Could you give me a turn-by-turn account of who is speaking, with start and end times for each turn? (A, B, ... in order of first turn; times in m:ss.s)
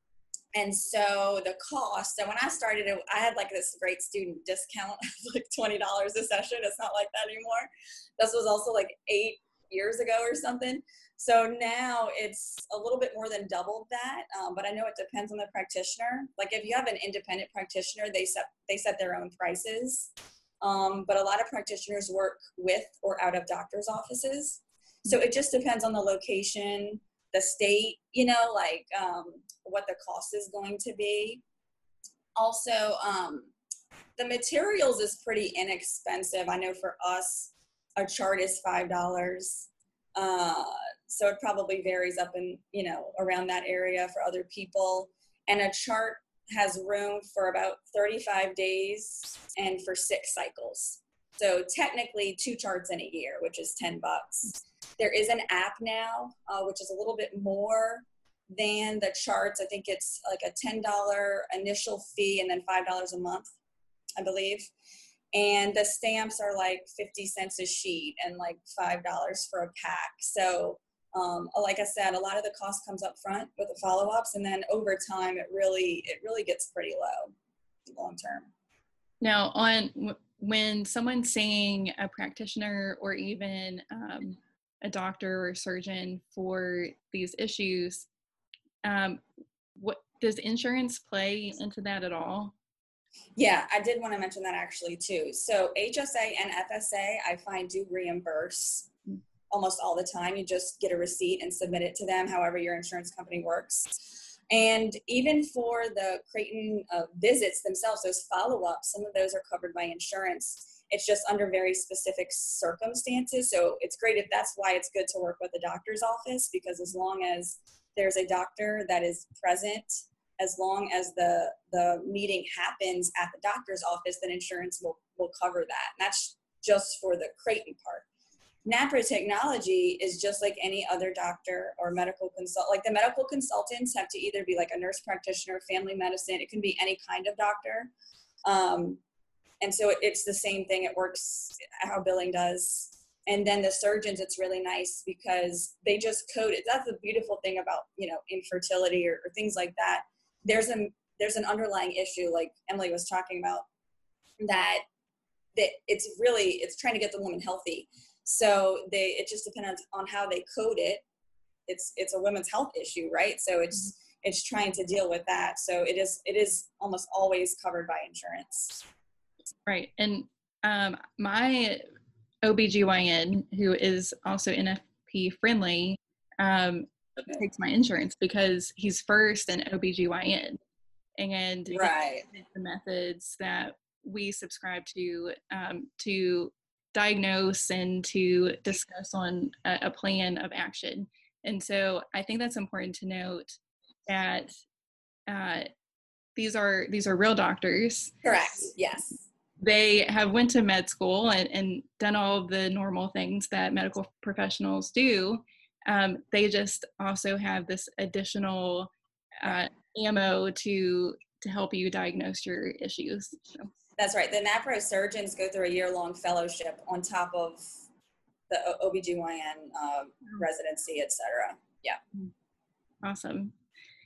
0:00.5-0:20.1 A
0:20.6-0:31.4 A
0:32.4-0:33.5 A
0:34.2-1:03.5 A
1:04.2-1:04.7 A
1:05.3-1:17.3 A
1:17.9-1:18.5 A
1:19.2-1:28.0 B
1:28.8-1:29.2 B
1:29.8-1:32.5 B
1:33.4-1:38.9 A
1:39.5-2:08.0 A
2:08.6-2:17.9 A
2:18.4-2:19.0 A
2:19.6-2:33.7 A
2:34.4-2:34.8 A
2:35.5-2:41.0 A
2:41.7-2:48.8 A
2:49.6-2:51.8 B
2:52.4-3:00.6 B
3:01.2-3:13.5 B
3:01.7-3:02.2 A
3:14.1-3:14.5 B
3:15.3-3:15.7 B
3:16.4-3:18.1 B
3:18.2-3:19.2 A
3:19.6-3:28.9 B
3:29.4-3:33.7 B
3:34.0-3:37.7 A
3:38.5-3:42.0 A
3:43.0-3:43.5 B